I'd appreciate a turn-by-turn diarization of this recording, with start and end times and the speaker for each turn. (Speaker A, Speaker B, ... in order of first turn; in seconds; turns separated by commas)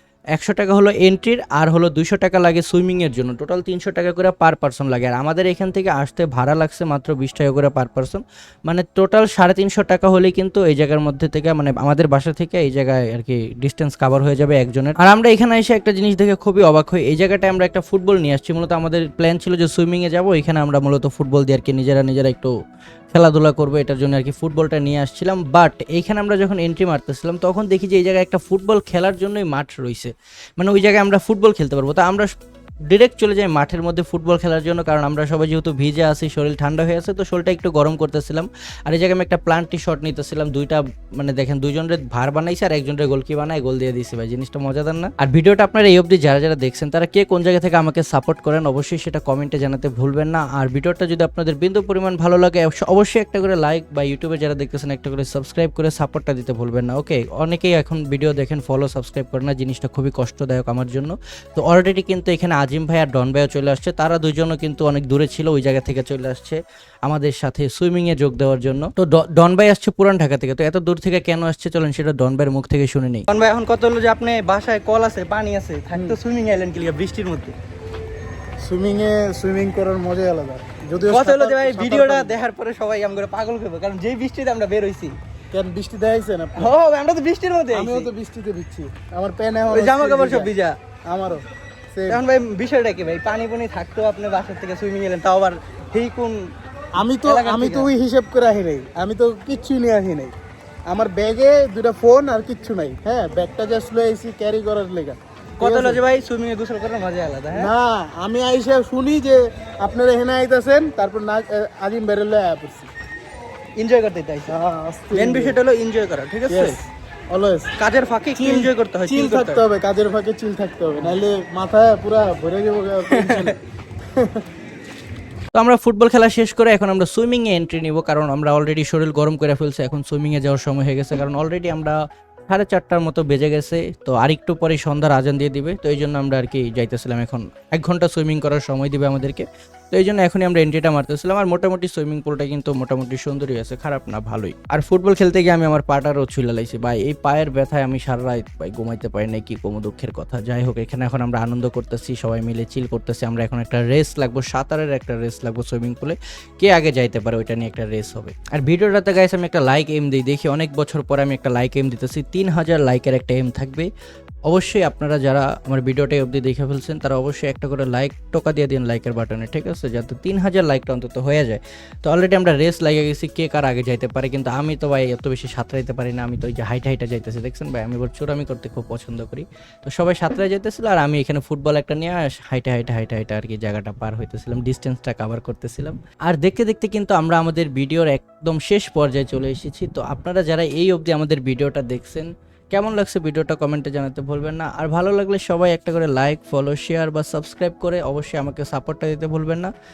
Speaker A: 0.3-22.5, Speaker A: 23.1-32.3, Speaker A: 32.9-75.9, Speaker B: 75.4-77.3, Speaker C: 75.9-76.2, Speaker A: 76.8-77.5, Speaker C: 78.6-82.4, Speaker B: 81.1-85.1, Speaker C: 85.5-86.8, Speaker B: 86.6-88.1, Speaker C: 87.7-90.5, Speaker B: 89.7-90.7, Speaker C: 91.1-92.2, Speaker B: 92.1-96.4, Speaker C: 97.0-100.3, Speaker B: 97.2-97.9, Speaker C: 100.9-106.1, Speaker B: 105.6-107.7, Speaker C: 107.5-112.9, Speaker B: 113.8-114.5, Speaker C: 114.5-115.6, Speaker B: 115.1-116.7, Speaker C: 116.5-117.7, Speaker B: 117.8-119.6, Speaker C: 118.3-123.5, Speaker A: 125.5-163.9, Speaker A: 164.5-199.7